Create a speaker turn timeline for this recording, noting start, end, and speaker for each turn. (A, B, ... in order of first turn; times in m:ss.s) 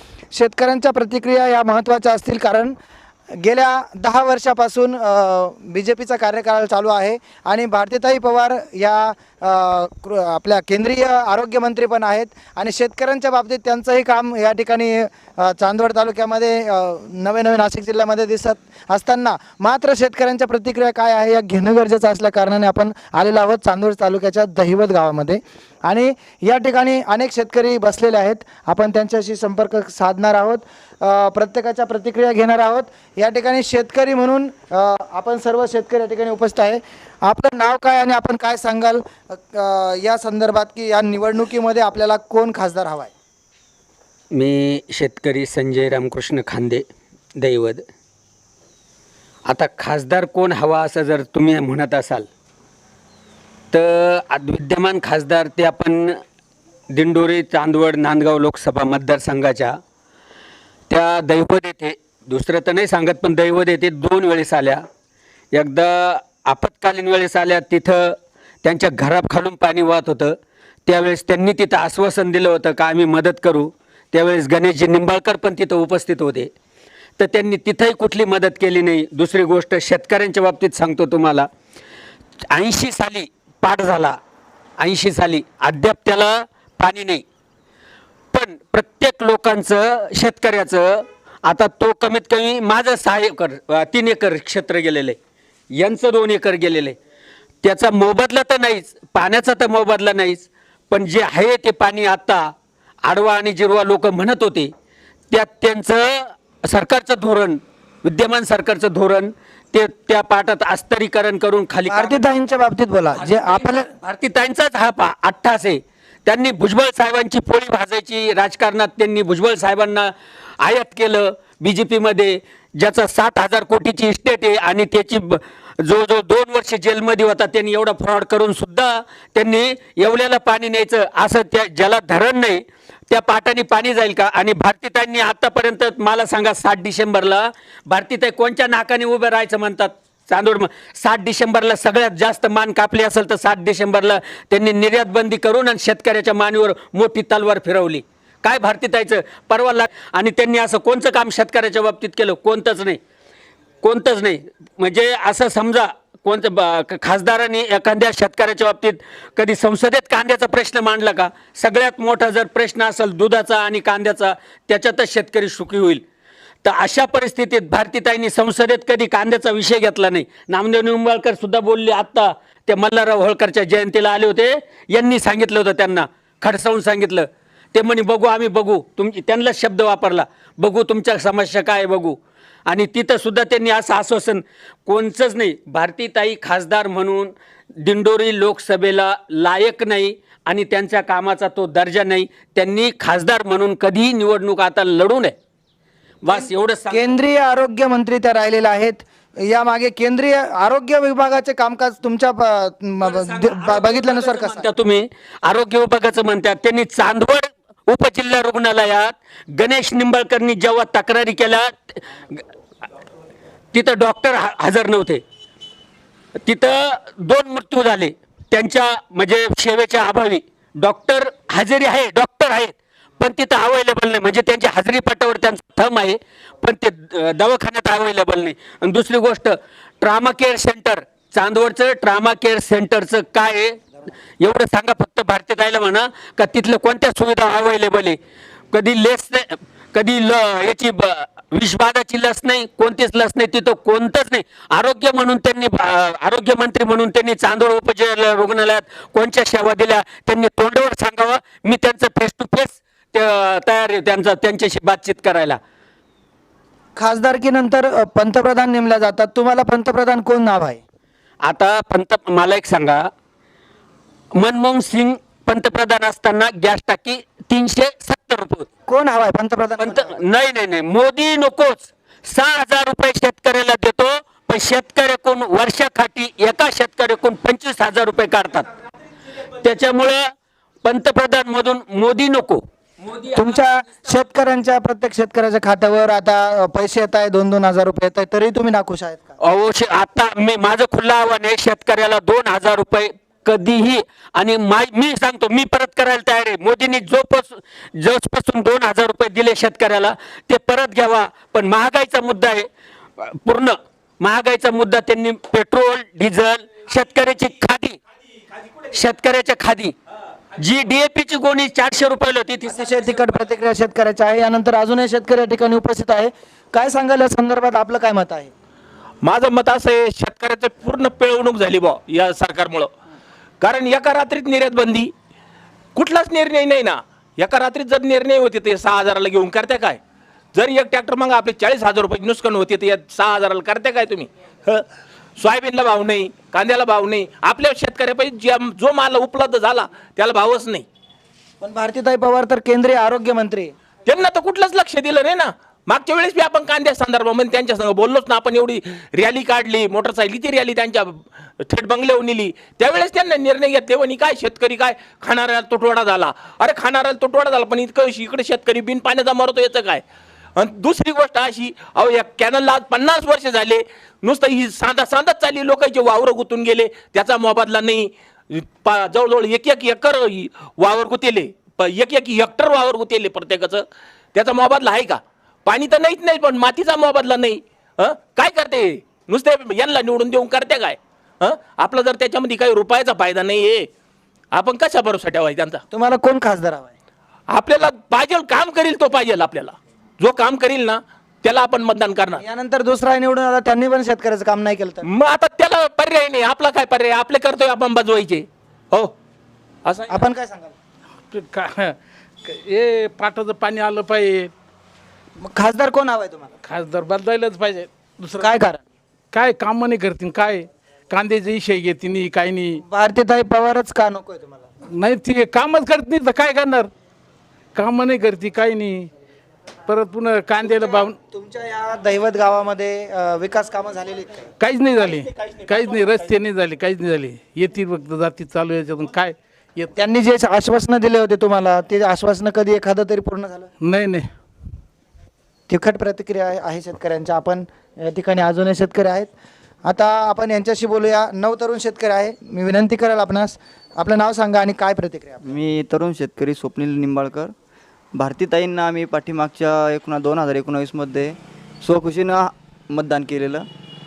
0:00.3-0:02.8 A
0:03.4-0:43.1 A
0:44.3-0:46.8 B
0:47.4-0:47.8 B
0:49.5-0:52.3 B
0:53.7-0:56.2 B
0:56.9-0:59.8 B
1:00.9-1:04.8 B
1:05.5-1:10.4 B
1:10.9-1:16.5 B
1:17.2-1:21.5 B
1:22.5-1:24.2 B
1:24.8-1:27.2 B
1:28.3-1:35.2 B
1:35.8-1:37.0 B
1:37.6-1:42.5 B
1:43.1-1:44.7 B
1:45.3-1:52.2 B
1:51.9-1:53.9 A
1:53.4-2:33.0 B
2:33.8-2:46.0 B
2:46.6-3:15.4 B
3:16.2-3:17.1 B
3:16.3-3:24.6 A
3:23.0-3:32.4 B
3:33.7-3:35.2 B
3:36.4-3:53.8 B
3:54.4-3:58.2 B
3:58.7-4:15.6 B
4:17.0-4:20.8 A
4:21.4-4:23.1 B
4:24.4-4:28.7 B
4:28.9-4:30.2 A
4:29.8-4:38.7 B
4:39.5-4:40.3 B
4:40.8-4:43.5 B
4:43.3-4:49.3 A
4:49.4-5:02.7 B
5:03.2-5:08.0 B
5:08.9-5:09.9 B
5:10.6-5:13.2 B
5:12.7-5:18.5 A
5:19.2-5:22.9 C
5:23.6-5:25.1 C
5:26.0-5:30.0 C
5:30.6-5:34.8 C
5:35.4-5:40.8 C
5:41.6-5:43.7 A
5:44.1-6:00.0 C
6:00.6-6:23.9 C
6:24.5-6:25.8 C
6:25.9-6:26.9 A
6:27.5-6:32.4 C
6:32.4-6:35.1 A
6:35.0-6:39.1 C
6:40.0-6:40.7 A
6:41.3-6:44.5 D
6:45.4-6:46.5 A
6:46.6-6:48.6 D
6:48.4-6:48.8 A
6:49.3-6:52.8 D
6:52.9-6:54.7 A
6:54.9-6:56.9 D
6:57.8-6:59.1 D
6:59.9-7:01.2 D
7:00.8-7:04.4 A
7:04.6-7:09.9 D
7:10.0-7:13.7 A
7:13.8-7:14.3 D
7:15.7-7:19.3 A
7:19.8-7:25.4 A
7:25.4-7:27.5 E
7:28.2-7:33.7 E